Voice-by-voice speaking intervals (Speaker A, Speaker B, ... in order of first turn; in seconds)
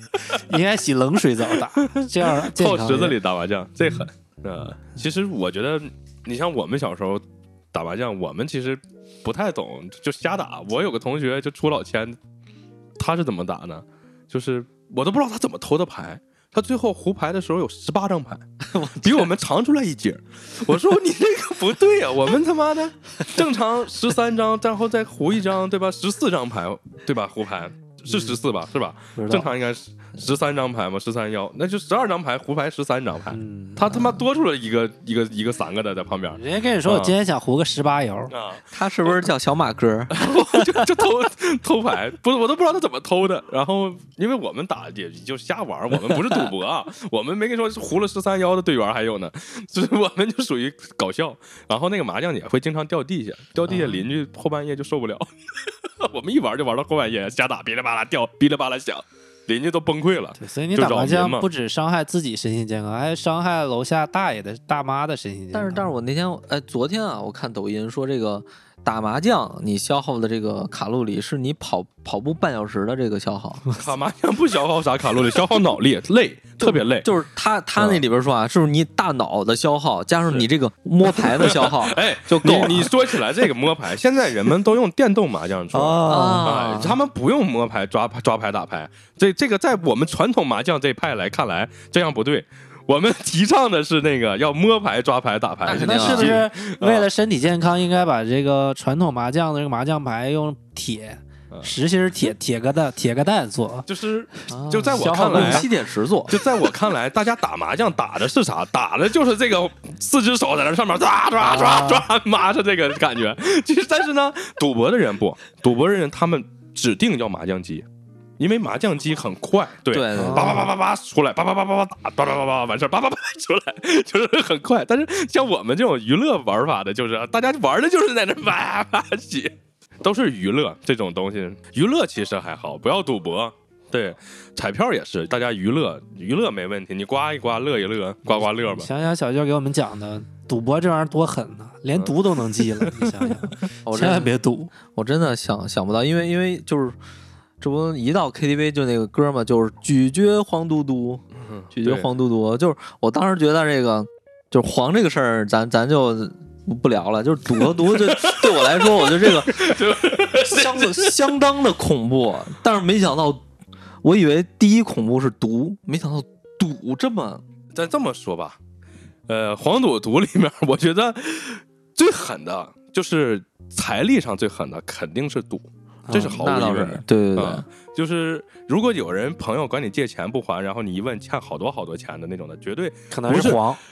Speaker A: 0.3-3.2, 28.1-28.4, 29.1-29.5, 33.3-34.2, 36.3-38.3, 53.7-54.0, 60.4-65.9, 85.7-86.5, 95.7-103.9, 104.9-105.7, 111.4-112.0, 120.1-120.7, 138.2-144.7, 176.1-176.4, 183.1-183.8
Speaker B: 1.8-12.2, 13.0-18.4, 19.0-37.1, 38.3-39.3, 40.1-61.5, 73.8-77.1, 77.8-78.0, 81.0-97.1, 103.9-105.7, 106.3-117.8, 118.4-138.9, 141.9-143.5, 151.4-152.1, 157.6-161.2, 167.7-168.6, 169.3-183.6
Speaker C: 18.6-19.3, 38.7-40.8, 65.5-73.7, 76.6-82.9, 86.1-87.0, 95.6-96.4, 104.5-106.3, 119.9-120.7, 143.8-144.3, 144.8-146.9, 147.6-163.4, 164.0-167.4, 176.2-177.6